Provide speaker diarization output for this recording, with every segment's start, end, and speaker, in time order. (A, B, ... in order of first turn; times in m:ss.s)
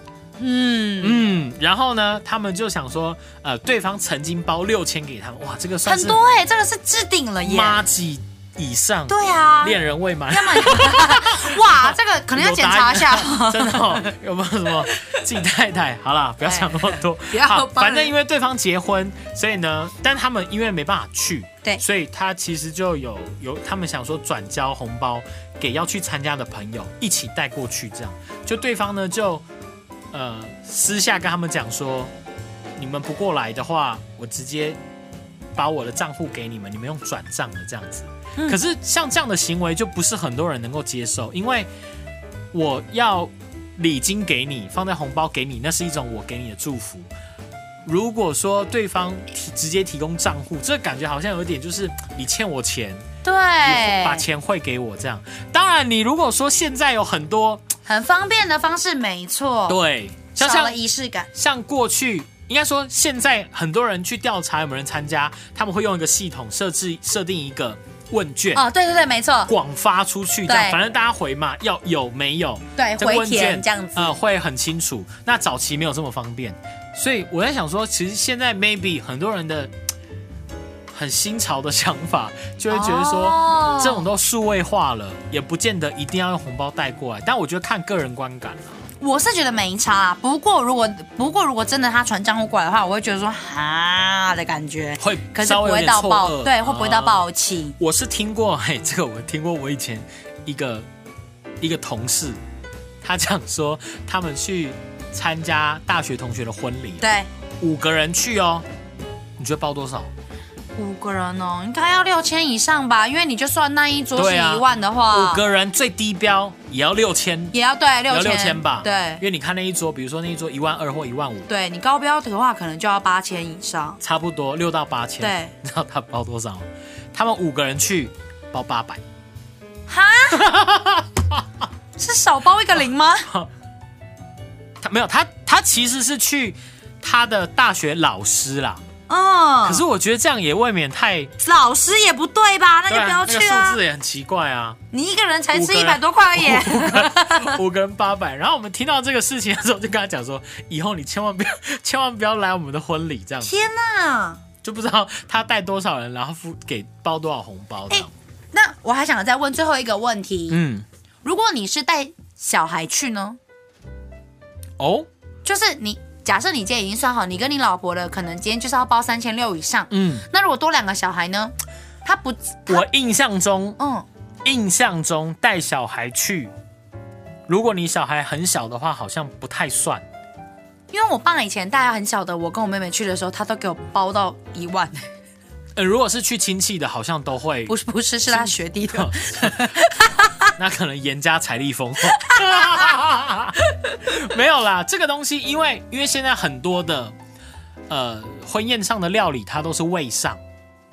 0:00.4-0:01.3 A
0:01.0-0:06.2 B
0:05.8-0:07.8 A
0:07.4-0:29.4 B
0:09.1-0:09.8 A
0:10.3-0:14.1 A
0:14.9-0:15.2 A
0:16.4-0:18.1 A
0:30.1-0:32.1 B
0:32.8-0:34.8 B
0:35.6-0:41.7 B
0:42.5-0:47.1 B
0:47.8-0:53.0 B
0:53.2-0:54.2 A
0:53.6-0:57.7 B
0:57.9-0:59.8 A
0:59.7-1:00.8 B
1:00.4-1:01.3 A
1:01.3-1:08.6 B
1:08.5-1:09.5 A
1:09.5-1:19.7 B
1:10.5-1:10.8 A
1:12.8-1:14.1 A
1:20.9-1:28.8 B
1:22.7-1:24.0 A
1:29.0-1:37.8 A
1:35.0-1:37.2 B
1:37.8-1:40.9 B
1:41.6-1:42.4 B
1:43.0-1:47.1 B
1:47.0-1:47.3 A
1:47.6-1:48.6 B
1:49.4-1:50.1 B
1:50.8-1:55.4 A
1:54.2-1:57.6 B
1:57.5-1:59.2 A
1:58.1-2:01.5 B
2:01.5-2:04.0 A
2:04.0-2:09.0 B
2:05.2-2:05.5 A
2:09.9-2:10.4 A
2:10.3-2:11.4 B
2:12.0-2:13.3 A
2:14.8-2:18.8 B
2:19.1-2:19.8 A
2:19.6-2:21.3 B
2:21.4-2:23.8 A
2:22.9-2:24.8 B
2:24.9-2:27.6 A
2:25.5-2:33.5 B
2:33.4-2:34.4 A
2:34.6-2:38.1 B
2:37.9-2:40.6 A
2:40.5-2:40.9 B
2:41.2-2:43.4 A
2:44.8-2:45.1 B
2:45.4-2:52.8 A
2:49.9-2:50.2 B
2:52.7-2:53.8 B
2:53.8-2:54.1 A
2:54.4-2:56.5 B
2:57.5-3:00.0 B
3:00.9-3:05.1 A
3:05.8-3:07.7 B
3:07.7-3:10.5 A
3:08.3-3:09.8 B
3:10.6-3:17.1 B
3:12.1-3:12.8 A
3:17.9-3:20.4 B